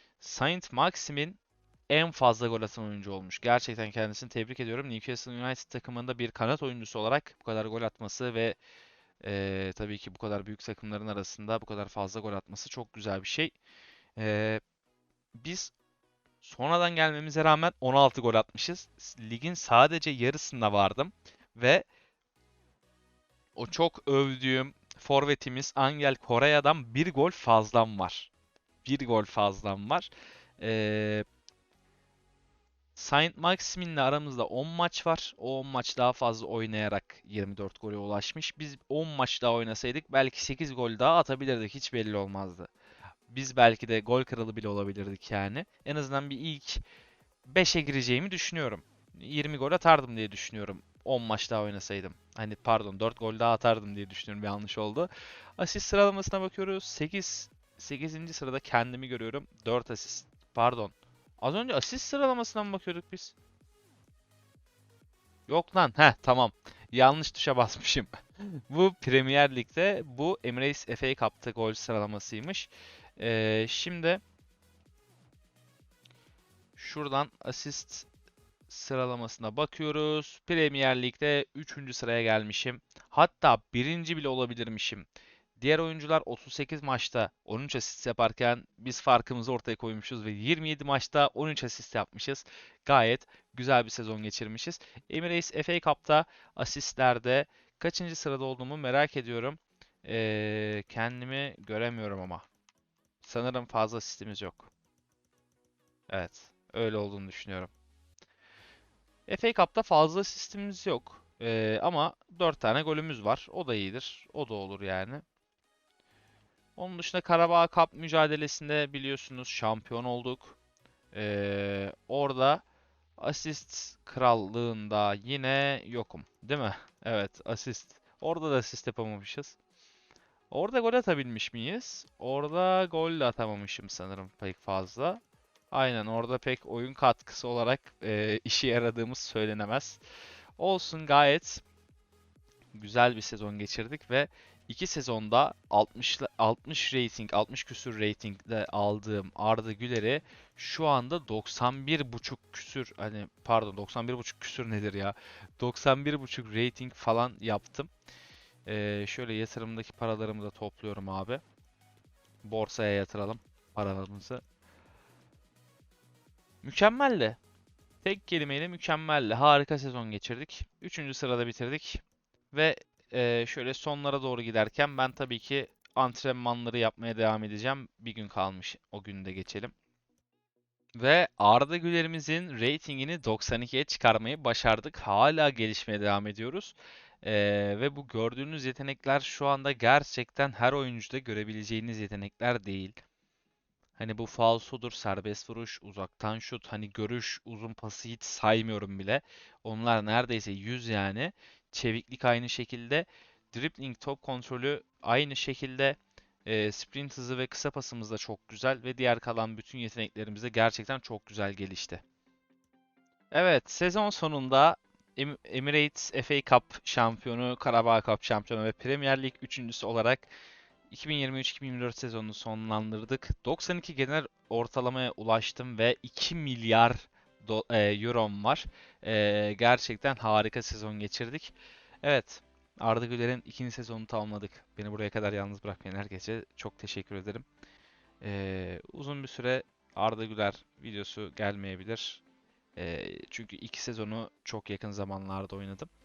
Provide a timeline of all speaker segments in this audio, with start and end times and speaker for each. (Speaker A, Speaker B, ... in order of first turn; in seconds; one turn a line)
Speaker A: 0.2-8.6
Speaker A: 9.2-13.5
Speaker A: 14.2-14.6
Speaker A: 15.3-15.7
Speaker A: 16.4-21.9
Speaker A: 23.6-28.3
Speaker A: 28.8-31.2
Speaker A: 33.0-42.7
Speaker A: 43.3-46.8
Speaker A: 47.4-63.3
Speaker A: 65.5-74.2
Speaker A: 76.8-78.1
Speaker A: 78.7-85.1
Speaker A: 85.6-102.5
Speaker A: 103.2-104.7
Speaker A: 106.1-107.7
Speaker A: 109.3-115.2
Speaker A: 116.8-120.5
Speaker A: 121.1-122.6
Speaker A: 123.2-129.6
Speaker A: 130.5-135.2
Speaker A: 135.7-140.0
Speaker A: 140.6-141.6
Speaker A: 142.7-157.9
Speaker A: 158.7-161.4
Speaker A: 162.4-164.4
Speaker A: 166.6-167.4
Speaker A: 168.0-179.7
Speaker A: 180.9-193.0
Speaker A: 194.0-212.0
Speaker A: 213.3-220.3
Speaker A: 220.9-237.4
Speaker A: 238.2-242.2
Speaker A: 242.8-245.9